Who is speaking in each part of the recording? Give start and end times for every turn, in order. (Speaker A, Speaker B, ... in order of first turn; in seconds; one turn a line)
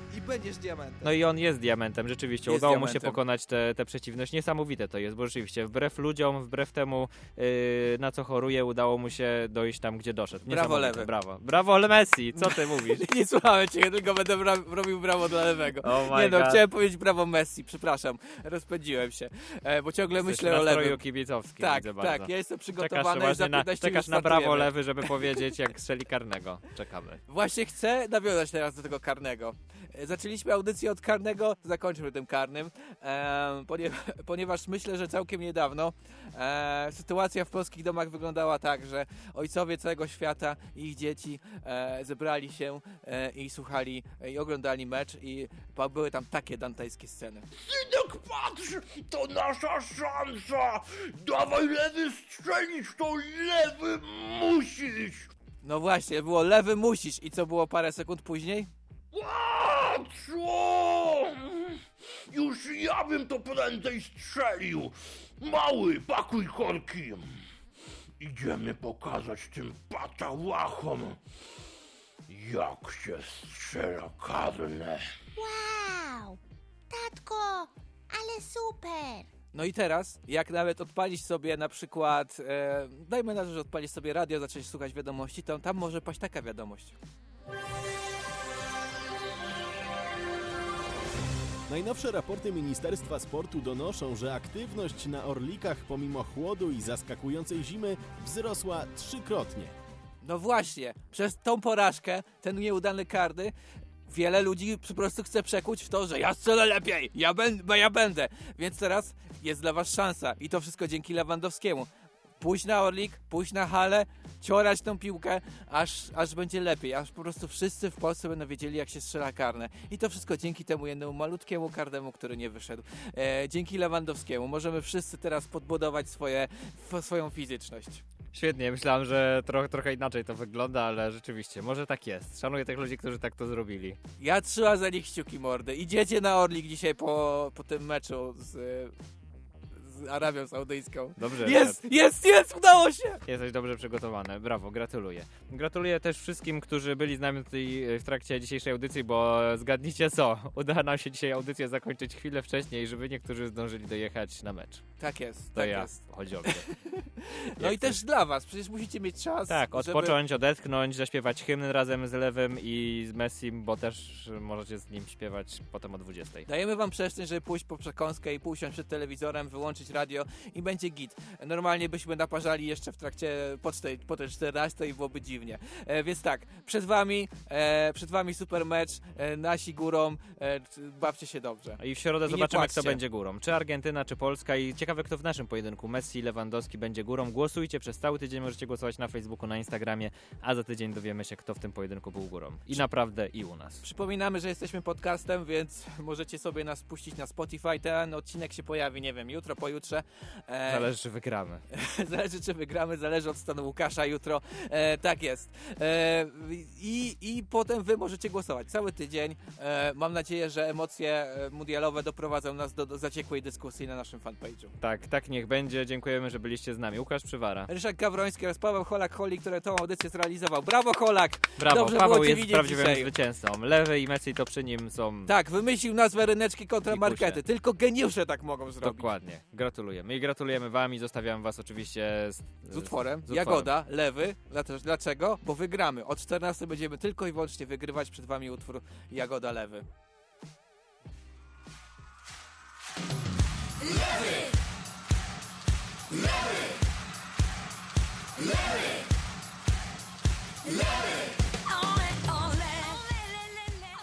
Speaker A: 1.0-13.0
Speaker B: 2.5-3.2
Speaker B: 10.5-11.1
Speaker B: 12.3-21.0
Speaker A: 15.8-16.6
Speaker A: 20.2-27.2
Speaker B: 21.6-25.4
Speaker B: 27.3-47.5
Speaker C: 47.5-55.3
Speaker B: 55.6-58.7
Speaker C: 59.1-67.3
Speaker C: 68.2-71.2
Speaker C: 72.3-75.0
Speaker D: 75.4-76.4
Speaker D: 76.9-79.3
Speaker B: 79.5-87.0
Speaker E: 91.7-99.8
Speaker B: 100.2-103.5
Speaker B: 104.1-111.9
Speaker B: 112.4-128.0
Speaker A: 128.3-134.0
Speaker B: 134.2-138.9
Speaker B: 139.7-143.2
Speaker A: 141.2-141.8
Speaker A: 143.2-154.8
Speaker B: 155.0-160.2
Speaker A: 155.5-156.7
Speaker A: 157.6-158.0
Speaker A: 159.5-166.5
Speaker B: 166.5-183.0
Speaker A: 181.8-193.8
Speaker B: 193.8-200.9
Speaker A: 200.7-201.6
Speaker B: 201.7-214.7
Speaker A: 214.8-217.7
Speaker B: 217.7-223.1
Speaker A: 221.6-225.3
Speaker B: 225.3-229.1
Speaker A: 226.9-227.4
Speaker A: 228.8-233.7
Speaker B: 232.7-239.8
Speaker D: 251.8-253.0